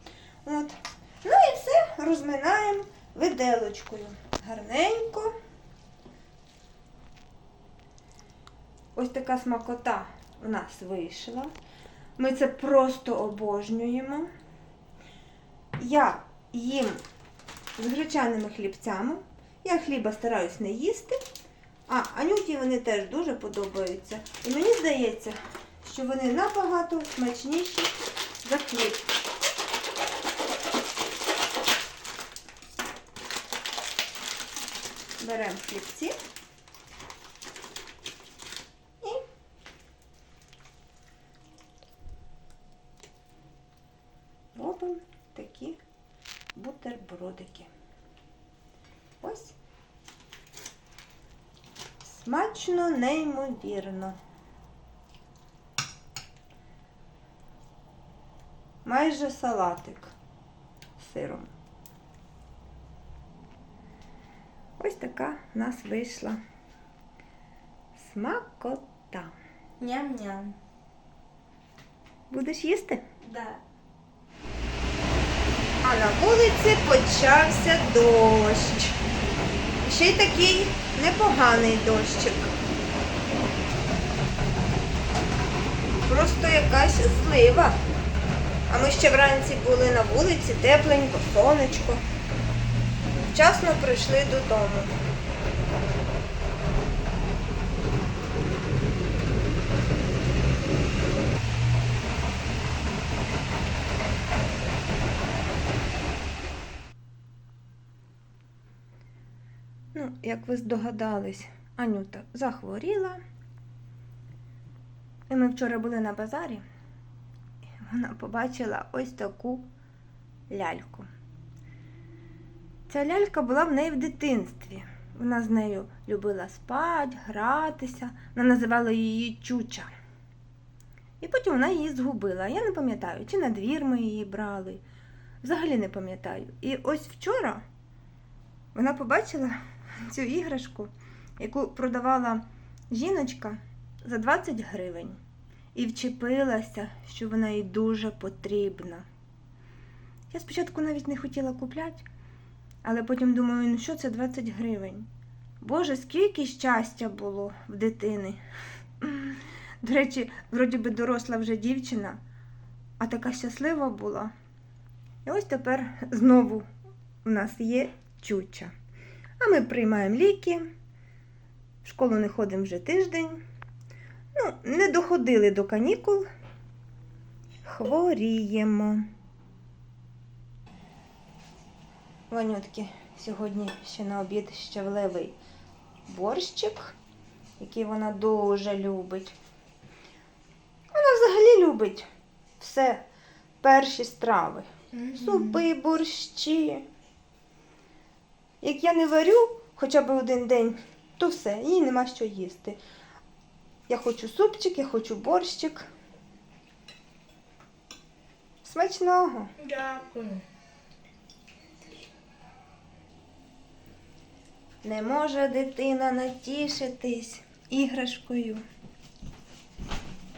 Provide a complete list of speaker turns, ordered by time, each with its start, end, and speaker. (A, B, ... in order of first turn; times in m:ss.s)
0:00.4-0:05.3 A
0:08.9-0:11.5 A
0:12.2-0:14.3 A
0:15.8-0:17.0 A
0:17.8-0:21.2 A
0:21.9-0:29.1 A
0:35.2-0:36.2 A
0:44.5-0:45.8 A
0:46.6-0:47.7 A
0:49.2-0:49.6 A
0:52.0-0:54.2 A
0:58.8-1:00.1 A
1:01.0-1:01.5 A
1:04.8-1:06.4 A
1:08.0-1:09.4 A
1:09.8-1:10.6 B
1:12.3-1:13.0 A
1:13.2-1:13.6 B
1:15.8-1:19.0 A
1:19.8-1:22.5 A
1:26.0-1:27.8 A
1:28.7-1:32.0 A
1:33.2-1:34.9 A
1:49.9-1:53.2 A
1:55.3-1:56.6 A
1:57.8-1:59.7 A
2:00.5-2:01.1 A
2:02.9-2:09.9 A
2:11.2-2:14.8 A
2:15.4-2:17.6 A
2:18.8-2:25.2 A
2:25.8-2:29.0 A
2:30.3-2:32.0 A
2:32.8-2:35.1 A
2:35.6-2:38.4 A
2:39.0-2:42.2 A
2:43.0-2:44.3 A
2:45.2-2:46.6 A
2:47.2-2:48.7 A
2:49.4-2:50.6 A
2:51.8-2:53.4 A
2:54.3-2:56.3 A
2:57.6-2:59.1 A
3:02.3-3:05.4 A
3:06.1-3:07.0 A
3:07.6-3:09.4 A
3:10.9-3:12.1 A
3:12.6-3:13.0 A
3:13.6-3:16.9 A
3:15.0-3:15.6 B
3:18.6-3:22.8 A
3:23.9-3:25.9 A
3:28.6-3:29.5 A
3:29.6-3:30.4 B
3:34.8-3:38.6 A